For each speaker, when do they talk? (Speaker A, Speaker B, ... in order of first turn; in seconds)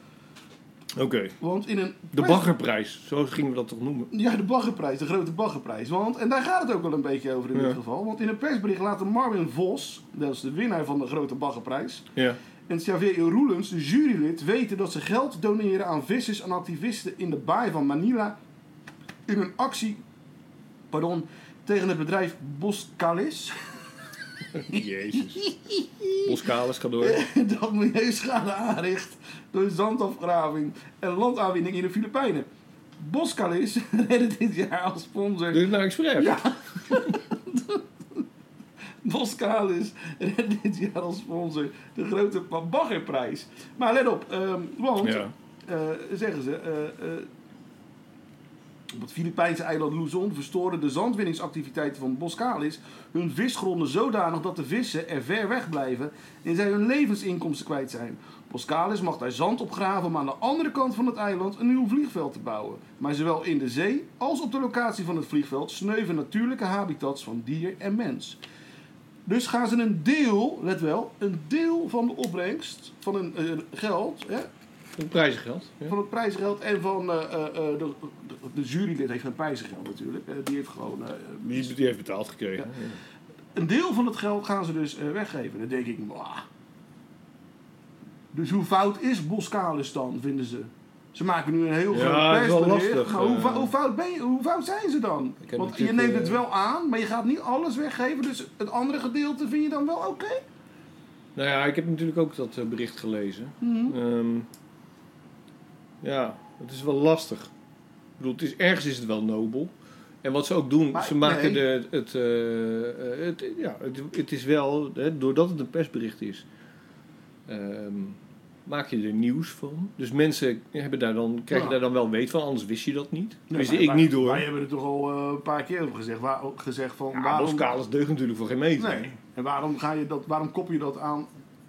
Speaker A: 0.9-1.4, 2.1-4.1, 24.5-25.5, 26.2-27.2, 35.5-37.0, 45.0-45.3, 74.9-75.9, 81.4-83.0, 91.9-93.7, 95.4-96.4, 101.3-104.5, 106.0-107.5, 108.2-116.5, 117.5-124.5, 127.1-129.1
Speaker B: 1.4-2.5, 4.1-12.1, 12.7-18.4, 19.3-20.0, 20.9-23.5, 24.7-26.3, 27.0-32.5, 33.0-38.2, 39.0-47.3, 48.9-68.4, 69.2-74.5, 75.9-81.7, 83.5-86.4, 88.3-100.4, 103.6-104.0, 110.9-111.6, 121.5-121.8, 123.5-127.8, 128.8-131.3